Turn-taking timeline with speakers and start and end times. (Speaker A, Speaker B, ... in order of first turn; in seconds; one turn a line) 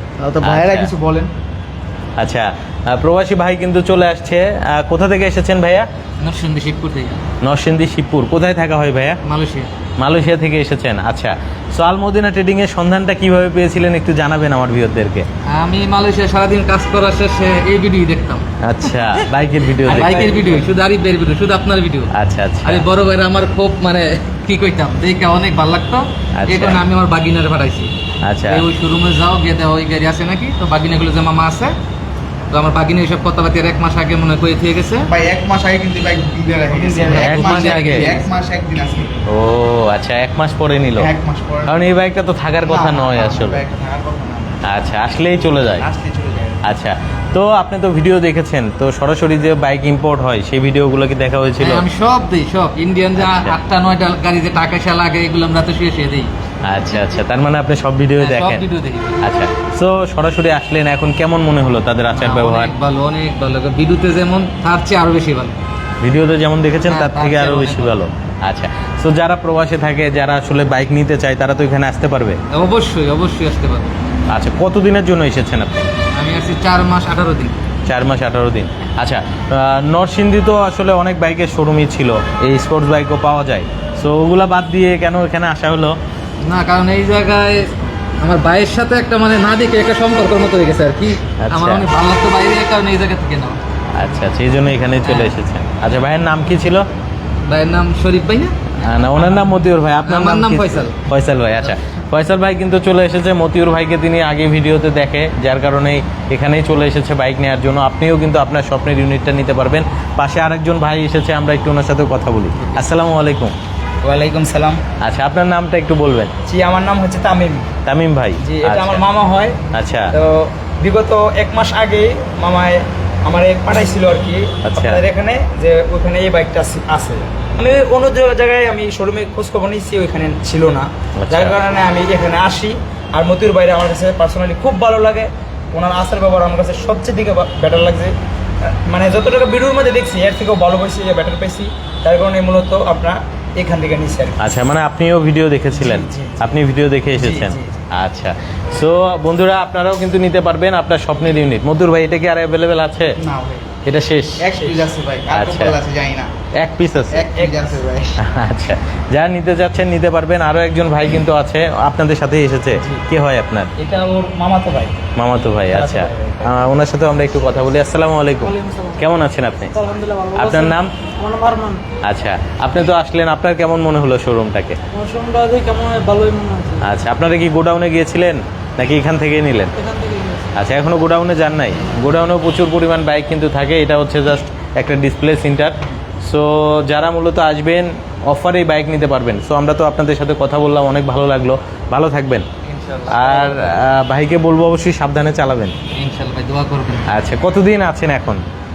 Speaker A: 0.2-1.3
Speaker B: 0.4-0.9
Speaker B: 2.2-5.9
Speaker C: 6.2-7.2
Speaker B: 7.4-9.2
Speaker C: 9.2-9.7
Speaker B: 10.0-15.3
Speaker C: 15.5-18.4
Speaker B: 18.6-20.5
Speaker C: 19.8-22.1
Speaker B: 22.1-22.9
Speaker C: 22.6-27.9
Speaker B: 26.4-26.8
Speaker B: 28.2-28.7
Speaker C: 28.4-31.7
Speaker C: 32.5-35.1
Speaker A: 35.1-39.2
Speaker C: 37.1-38.3
Speaker B: 37.2-37.8
Speaker D: 37.7-38.1
Speaker B: 39.3-41.1
Speaker A: 41.0-41.9
Speaker B: 41.7-43.6
Speaker A: 42.6-44.6
Speaker B: 44.6-45.9
Speaker A: 45.6-46.6
Speaker B: 46.6-51.9
Speaker C: 51.6-56.3
Speaker B: 53.2-53.6
Speaker B: 56.6-58.6
Speaker C: 58.2-59.2
Speaker B: 59.2-62.7
Speaker C: 62.1-65.6
Speaker B: 66.0-72.4
Speaker C: 66.8-68.0
Speaker C: 72.5-74.0
Speaker B: 74.3-75.9
Speaker C: 76.1-77.6
Speaker B: 77.8-85.9
Speaker C: 86.4-93.6
Speaker B: 91.4-91.9
Speaker B: 93.9-96.8
Speaker C: 95.0-95.3
Speaker C: 97.5-99.5
Speaker B: 98.8-113.5
Speaker C: 100.0-101.0
Speaker D: 114.0-114.8
Speaker B: 115.0-116.3
Speaker D: 116.5-117.7
Speaker B: 117.8-119.0
Speaker D: 118.4-119.6
Speaker B: 119.7-120.1
Speaker D: 120.1-138.1
Speaker B: 124.6-125.0
Speaker B: 131.2-131.6
Speaker D: 138.7-144.5
Speaker B: 144.4-153.2
Speaker D: 145.8-146.3
Speaker D: 147.2-147.6
Speaker A: 153.2-153.7
Speaker B: 153.8-154.5
Speaker A: 154.4-156.3
Speaker B: 155.3-155.8
Speaker B: 156.6-157.3
Speaker A: 157.1-158.2
Speaker B: 158.2-163.7
Speaker D: 163.8-164.8
Speaker A: 163.8-164.9
Speaker B: 165.2-170.9
Speaker D: 165.7-166.7
Speaker A: 165.9-166.2
Speaker E: 168.6-168.9
Speaker E: 169.8-171.8
Speaker B: 172.0-174.8
Speaker E: 174.9-176.8
Speaker B: 176.8-179.8
Speaker E: 179.8-180.5
Speaker B: 180.5-192.4
Speaker C: 192.7-193.7
Speaker B: 193.1-195.8
Speaker C: 195.9-197.1
Speaker B: 197.1-198.4